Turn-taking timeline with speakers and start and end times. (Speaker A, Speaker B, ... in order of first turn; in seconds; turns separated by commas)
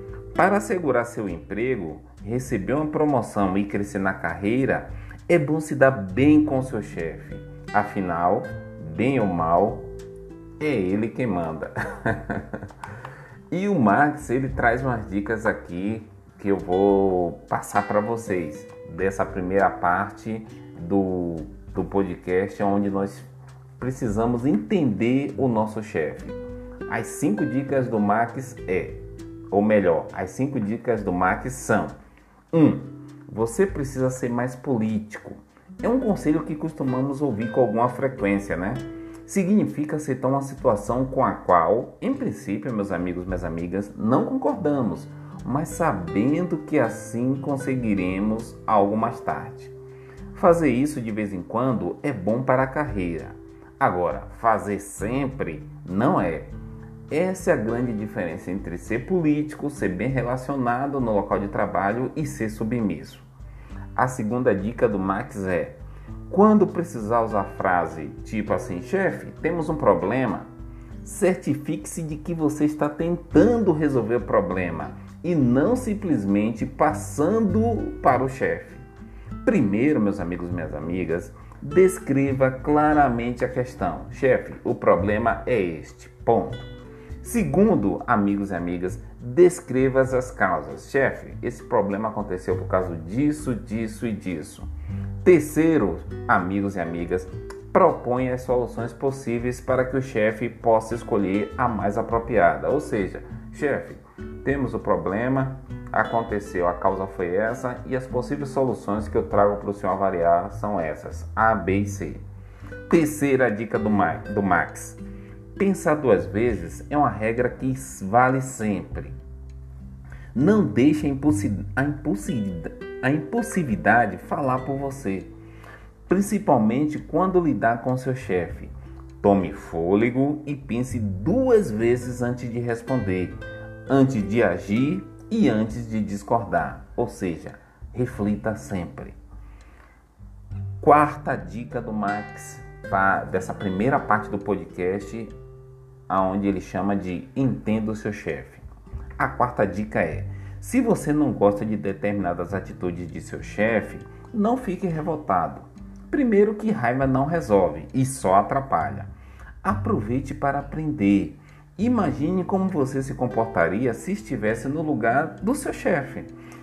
Speaker A: 0.3-9.9, Speaker A: 10.6-12.6, Speaker A: 13.5-23.3, Speaker A: 23.8-32.0, Speaker A: 32.5-49.7, Speaker A: 50.3-56.5, Speaker A: 57.1-63.3, Speaker A: 64.0-70.5, Speaker A: 71.0-78.8, Speaker A: 79.4-86.7, Speaker A: 87.2-94.7, Speaker A: 95.2-112.2, Speaker A: 112.9-115.0, Speaker A: 115.6-119.2, Speaker A: 120.3-125.3, Speaker A: 126.1-139.2, Speaker A: 140.8-145.3, Speaker A: 146.1-148.7, Speaker A: 149.2-159.1, Speaker A: 159.6-166.3